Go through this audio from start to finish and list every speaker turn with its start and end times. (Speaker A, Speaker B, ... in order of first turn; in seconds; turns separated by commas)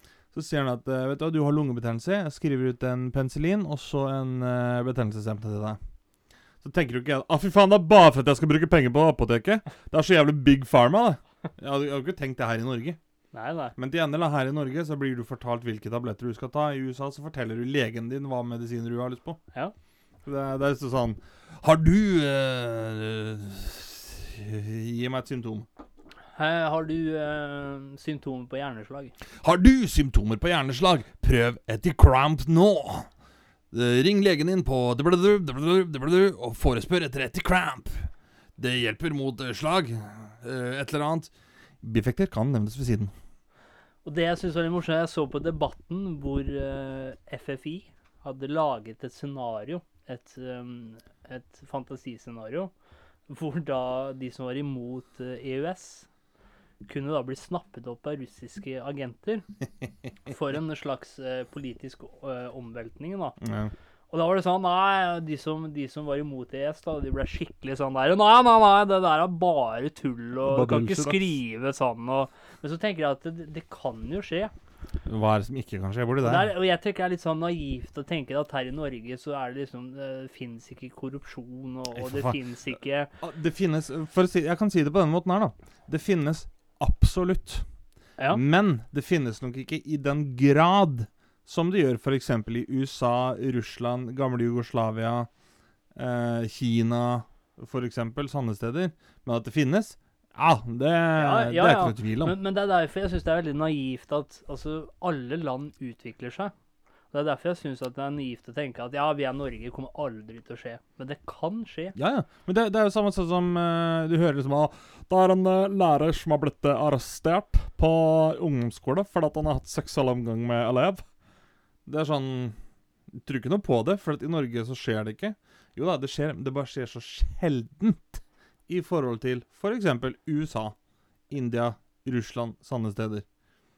Speaker A: 0.3-5.8, Speaker A: 6.6-13.0, Speaker B: 13.3-13.8, Speaker A: 13.8-19.4, Speaker A: 20.2-25.7, Speaker B: 26.4-29.1, Speaker A: 29.4-33.1, Speaker A: 33.7-43.1, Speaker B: 44.0-52.7, Speaker B: 53.3-56.1, Speaker B: 56.8-59.5, Speaker B: 60.3-63.4, Speaker A: 63.4-63.7, Speaker B: 64.1-74.5, Speaker A: 70.4-71.2, Speaker A: 75.1-76.5, Speaker B: 76.2-83.1, Speaker A: 82.0-82.4, Speaker A: 83.2-87.7, Speaker A: 88.3-95.3, Speaker A: 96.0-102.3, Speaker B: 101.2-106.5, Speaker B: 107.1-112.0, Speaker A: 112.0-121.1, Speaker A: 121.9-122.6, Speaker A: 123.1-130.8, Speaker A: 131.3-133.2